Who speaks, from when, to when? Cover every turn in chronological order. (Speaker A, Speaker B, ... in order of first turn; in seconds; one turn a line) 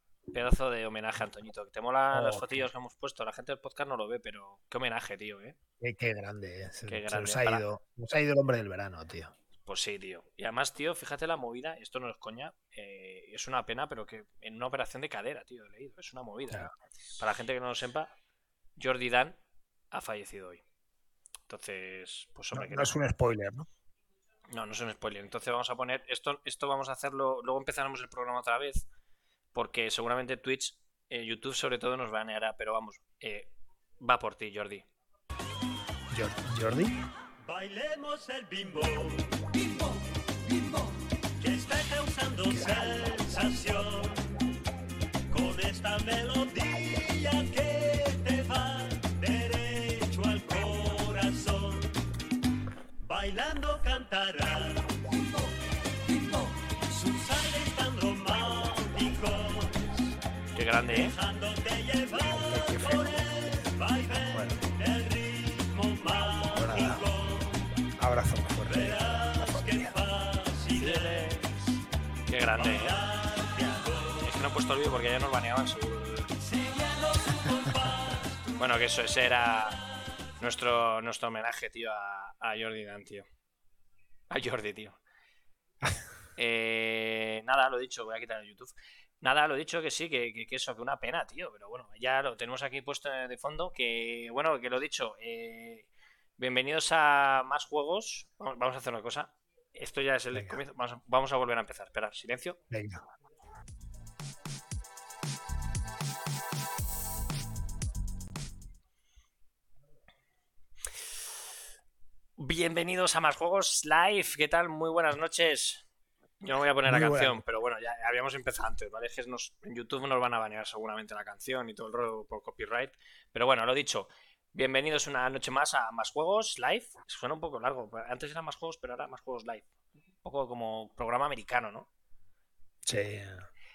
Speaker A: 0.3-5.6
Speaker B: 2.1-2.7
Speaker B: 5.8-9.3
Speaker A: 6.9-7.6
Speaker A: 9.7-18.1
Speaker A: 18.8-19.4
Speaker A: 19.9-20.6
Speaker A: 21.5-22.9
Speaker B: 22.5-23.7
Speaker A: 24.5-28.9
Speaker A: 29.5-34.9
Speaker B: 36.1-37.0
Speaker C: 37.5-39.6
Speaker C: 41.4-44.3
Speaker B: 42.5-43.1
Speaker C: 45.3-52.0
Speaker C: 53.0-55.1
Speaker C: 56.4-59.9
Speaker A: 60.5-61.2
Speaker C: 60.9-67.6
Speaker B: 62.3-63.7
Speaker B: 64.3-64.6
Speaker B: 66.5-67.1
Speaker B: 68.0-70.0
Speaker C: 68.6-71.5
Speaker A: 72.3-73.0
Speaker C: 72.6-74.2
Speaker A: 74.2-76.3
Speaker C: 76.5-78.2
Speaker A: 78.6-79.8
Speaker A: 80.4-83.3
Speaker A: 84.3-85.0
Speaker A: 86.4-102.6
Speaker B: 100.3-100.6
Speaker B: 102.7-103.0
Speaker A: 112.4-115.8
Speaker A: 116.4-129.7
Speaker B: 116.9-117.4
Speaker A: 130.2-131.9
Speaker B: 132.8-133.5